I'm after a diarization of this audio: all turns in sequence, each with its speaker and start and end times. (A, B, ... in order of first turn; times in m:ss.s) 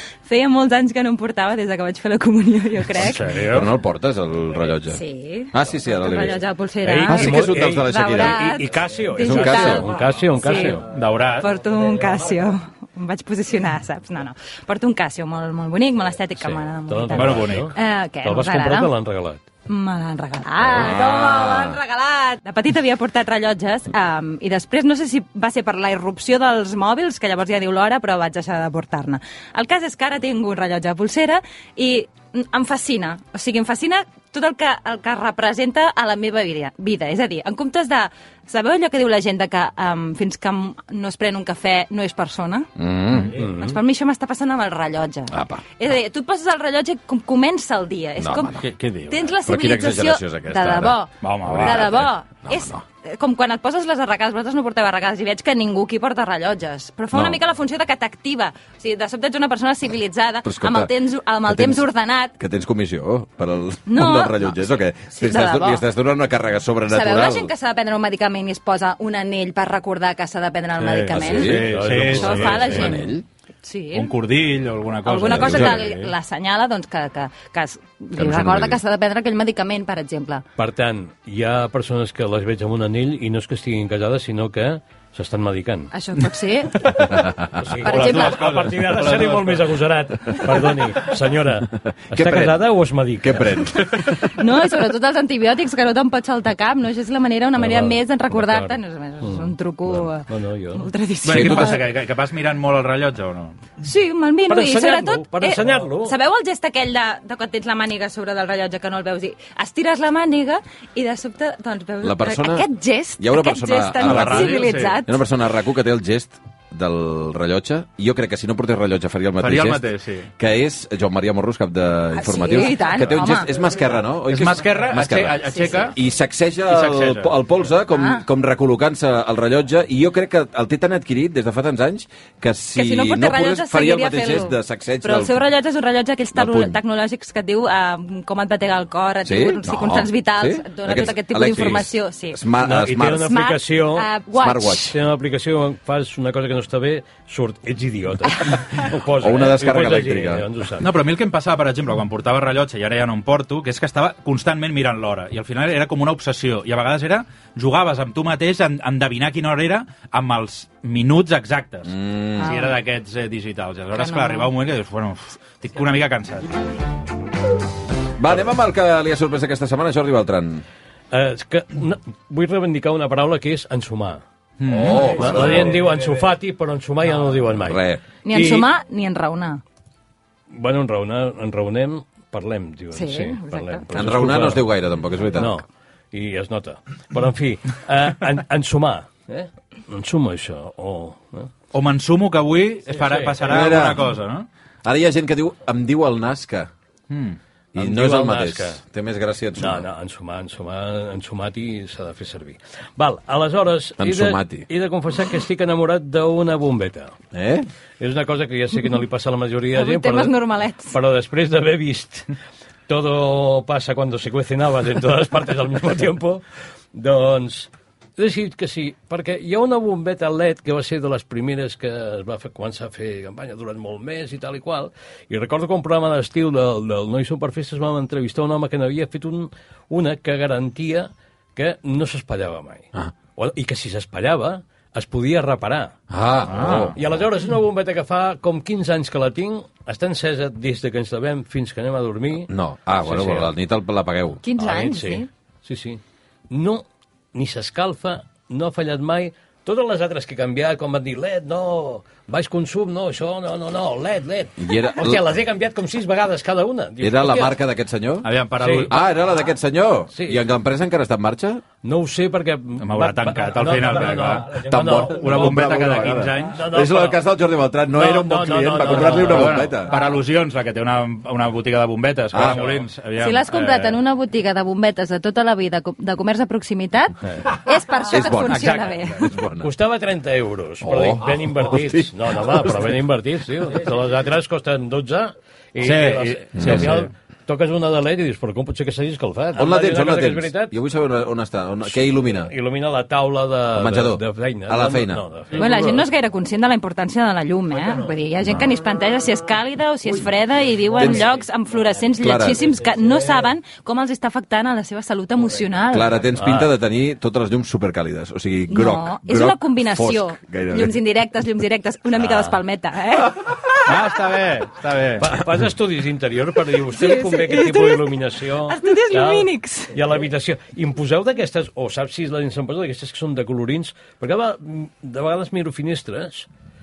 0:00.2-0:03.4 A
0:02.9-0:03.7 B
0:03.4-0:06.4 C
0:04.9-0:18.9 A
0:06.8-0:10.8 D
0:07.1-0:08.4 C
0:09.1-0:09.9 C
0:10.8-0:11.5 B
0:16.4-0:19.4 D
0:17.1-0:17.7 B
0:19.7-0:42.7 A
0:20.6-0:21.8 C
0:42.8-0:43.4 C
0:43.3-0:43.8 D
0:43.6-1:02.3 A
0:45.3-0:45.6 C
0:48.2-0:48.6 C
0:48.6-0:49.2 B
0:49.5-0:52.8 C
0:51.2-0:51.8 B
0:57.1-0:57.4 C
1:00.4-1:00.9 C
1:01.4-1:01.9 C
1:02.4-1:07.5 C
1:03.9-1:05.9 A
1:06.9-1:13.1 A
1:10.8-1:12.8 B
1:11.1-1:13.2 C
1:11.4-1:13.0 D
1:13.6-1:14.2 A
1:13.9-1:16.1 B
1:15.0-1:20.4 A
1:15.3-1:15.8 C
1:18.2-1:18.8 C
1:20.6-1:25.9 D
1:25.9-1:26.9 A
1:26.9-1:33.7 D
1:27.8-1:29.8 B
1:27.8-1:28.4 A
1:32.1-1:34.1 C
1:34.1-1:42.0 A
1:37.6-1:40.9 D
1:41.2-1:43.6 B
1:41.3-1:41.8 C
1:43.8-1:55.2 A
1:44.5-1:46.2 D
1:52.0-1:52.7 C
1:53.2-1:59.9 C
1:54.0-1:55.0 B
1:59.4-2:00.3 B
2:00.4-2:15.5 C
2:02.1-2:03.5 A
2:03.1-2:03.4 B
2:04.2-2:05.9 B
2:05.4-2:05.9 A
2:06.7-2:07.3 B
2:07.9-2:08.2 A
2:12.8-2:22.4 A
2:16.4-2:16.8 C
2:19.2-2:23.3 C
2:21.6-2:21.8 D
2:22.6-2:24.1 D
2:23.2-2:24.9 A
2:24.4-2:25.0 C
2:24.7-2:30.9 D
2:29.2-2:30.5 C
2:30.8-2:46.5 B
2:41.9-2:42.5 C
2:42.4-2:42.8 A
2:44.0-2:44.5 A
2:48.2-2:50.6 C
2:51.1-2:54.2 D
2:54.6-2:55.2 B
2:54.7-2:55.9 C
2:54.9-2:58.7 D
2:55.2-2:55.7 A
2:57.7-2:58.0 C
2:58.2-2:59.6 A
3:00.5-3:04.7 D
3:02.9-3:03.9 A
3:03.9-3:05.6 C
3:05.4-3:11.5 D
3:11.7-3:14.5 B
3:12.9-3:13.6 D
3:13.4-3:14.0 C
3:14.8-3:16.7 C
3:17.1-3:17.4 B
3:17.7-3:19.9 C
3:17.8-3:18.8 D
3:19.6-3:27.2 D
3:24.0-3:24.7 C
3:27.3-3:27.7 C
3:28.0-3:32.3 D
3:29.7-3:31.0 A
3:32.9-3:55.9 D
3:56.1-3:57.0 C
3:56.5-3:57.0 B
3:57.0-4:03.5 D
4:02.5-4:04.4 C
4:04.4-4:05.3 A
4:04.6-4:17.6 D
4:14.6-4:15.2 C
4:17.0-4:18.3 C
4:18.2-4:19.0 B
4:18.6-4:18.9 D
4:18.9-4:21.6 C
4:20.1-4:20.4 D
4:21.8-4:27.2 D
4:22.8-4:26.6 B
4:24.6-4:30.0 C
4:27.9-4:29.7 D
4:28.9-4:34.0 B
4:32.3-4:32.8 C
4:32.4-4:32.8 D
4:33.2-4:39.3 A
4:38.1-4:38.6 C
4:38.4-4:39.2 B
4:39.2-4:39.7 C
4:39.6-4:50.8 D
4:40.8-4:42.9 C
4:45.8-4:47.1 B
4:46.6-4:47.0 C
4:49.6-4:52.5 C
4:51.8-4:56.0 D
4:53.7-4:55.2 C
4:55.5-5:06.2 A
5:02.2-5:02.6 C
5:05.9-5:11.0 C
5:06.3-5:06.7 D
5:08.7-5:13.9 A
5:12.2-5:12.6 C
5:13.9-5:15.3 B
5:15.2-5:26.5 D
5:16.9-5:20.0 A